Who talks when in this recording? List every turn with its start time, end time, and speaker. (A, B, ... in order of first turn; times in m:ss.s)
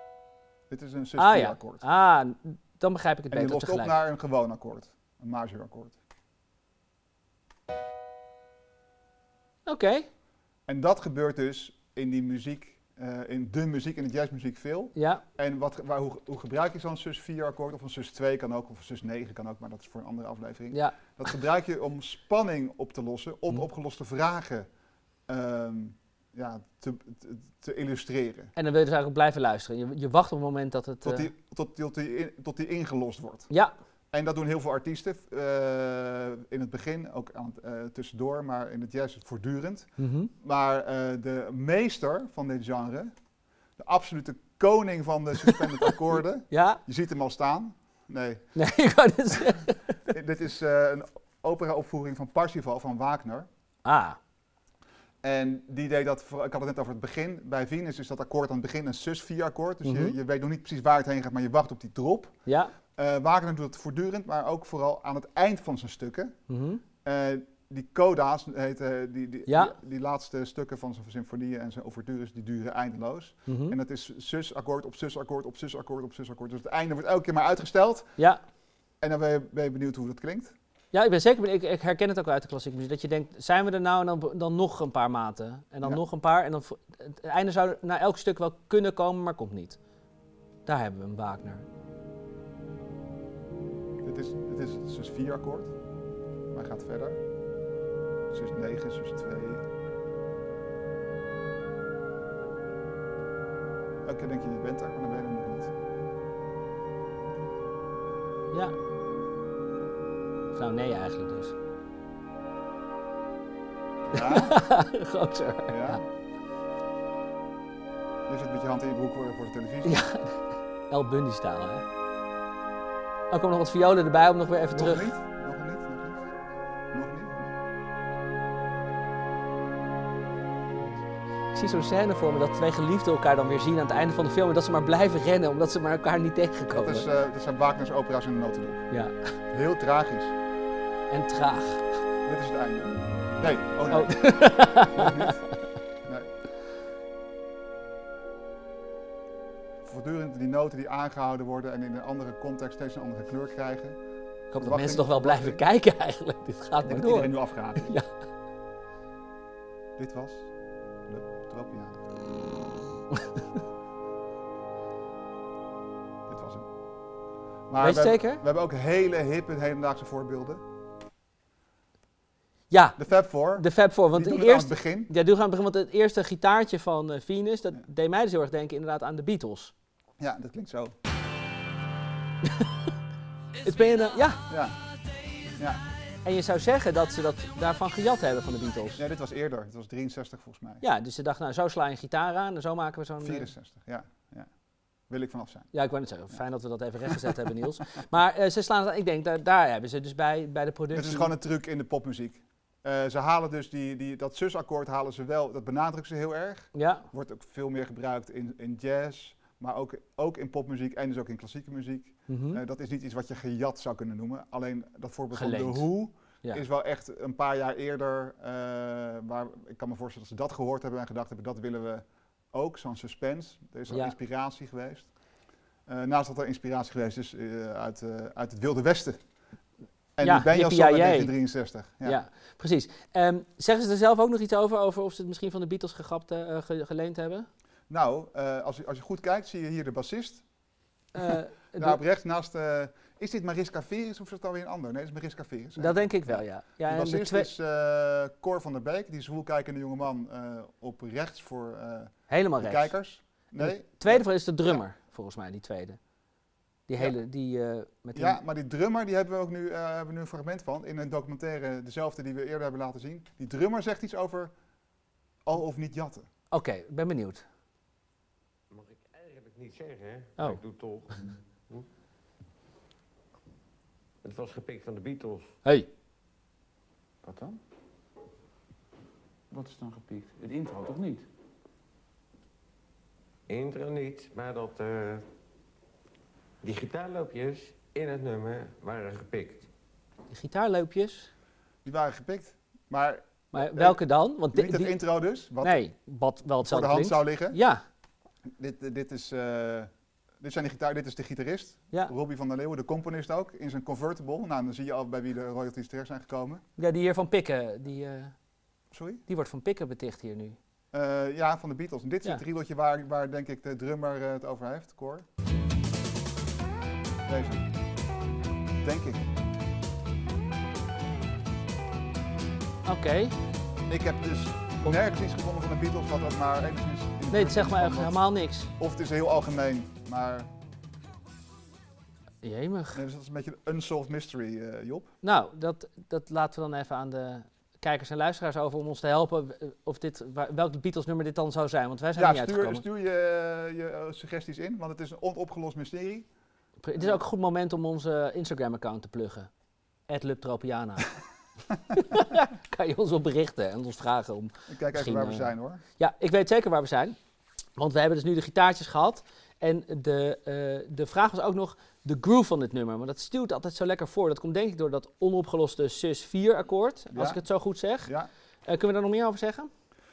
0:00.7-0:01.8 A
0:01.2-0:03.9 B
0:03.3-0:06.0 A
0:09.6-0:10.1 B
0:10.7-0:24.7 A
0:14.9-0:15.2 B
0:20.7-0:21.0 B
0:25.3-0:28.5 A
0:28.6-0:31.3 B
0:31.0-0:33.5 A
0:34.1-0:43.1 A
0:40.0-0:40.3 B
0:43.8-0:48.4 A
0:46.5-0:46.8 B
0:48.6-0:49.9 B
0:50.1-0:53.5 A
0:53.8-0:54.2 B
0:55.2-1:02.4 A
0:59.8-1:00.2 B
1:02.4-1:02.7 B
1:03.0-1:06.4 A
1:06.5-1:06.8 B
1:07.0-1:18.1 A
1:09.5-1:09.7 B
1:13.5-1:13.8 B
1:19.0-1:20.5 A
1:20.9-1:29.8 B
1:30.6-1:31.6 B
1:34.0-1:35.7 A
1:36.5-1:37.2 A
1:38.3-1:39.6 A
1:44.0-1:45.7 A
1:50.5-1:51.5 B
1:54.0-1:54.6 A
1:54.1-1:56.0 B
1:55.7-1:56.0 A
1:58.3-2:00.0 A
1:59.8-2:01.8 B
2:03.3-2:05.1 B
2:04.7-2:06.4 A
2:06.9-2:07.5 A
2:11.5-2:17.1 B
2:16.7-2:18.9 A
2:19.5-2:20.3 A
2:21.1-2:21.9 B
2:22.2-2:25.4 A
2:23.9-2:25.4 B
2:29.8-2:34.0 A
2:34.5-2:38.0 B
2:34.6-2:35.6 A
2:36.8-2:37.9 A
2:40.0-2:40.5 A
2:41.1-2:42.0 A
2:46.3-2:46.7 A
2:47.7-2:50.6 A
2:47.8-2:48.4 B
2:52.7-2:53.0 B
2:53.0-2:55.1 A
2:53.6-2:59.7 B
3:00.2-3:00.9 A
3:03.6-3:04.4 B
3:04.5-3:04.8 A
3:05.6-3:05.8 A
3:06.2-3:09.0 B
3:09.0-3:10.8 A
3:10.8-3:13.5 B
3:13.2-3:14.5 A
3:15.1-3:15.7 A
3:15.7-3:21.3 B
3:20.9-3:45.1 A
3:26.7-3:27.0 B
3:32.3-3:32.6 B
3:35.3-3:35.9 B
3:45.9-3:49.2 A
3:50.2-3:52.2 A
3:50.2-3:51.3 B
3:52.0-3:57.5 B
3:57.9-4:00.4 A
4:01.1-4:02.0 B
4:01.8-4:14.8 A
4:05.8-4:07.5 B
4:12.3-4:12.9 B
4:13.6-4:16.0 B
4:16.9-4:18.4 B
4:18.1-4:24.5 A
4:25.4-4:26.3 A
4:26.5-4:27.4 B
4:28.7-4:31.8 C
4:34.2-4:35.6 C
4:37.2-4:37.6 D
4:39.5-4:41.2 D
4:43.5-4:45.3 C
4:46.6-4:49.7 C
4:50.3-4:51.3 B
4:51.8-4:54.0 A
4:53.5-4:54.9 B
4:54.5-4:55.8 A
4:55.6-4:57.8 B
4:56.6-4:57.6 A
4:58.6-4:59.9 A
5:00.4-5:06.6 A
5:06.8-5:08.3 B
5:08.9-5:09.2 A
5:09.3-5:10.6 B
5:10.9-5:15.2 A
5:17.3-5:17.7 A
5:18.8-5:19.3 A
5:22.8-5:23.4 B
5:23.9-5:28.2 A
5:27.3-5:28.7 B
5:28.8-5:30.5 A
5:32.4-5:33.0 B
5:32.9-5:35.1 A
5:35.2-5:42.8 B
5:42.2-5:46.3 A
5:46.8-5:49.5 B
5:50.1-5:51.1 B
5:51.9-5:57.2 B
5:54.7-5:55.8 A
5:57.8-6:08.1 B
6:07.1-6:07.4 A
6:08.6-6:09.7 B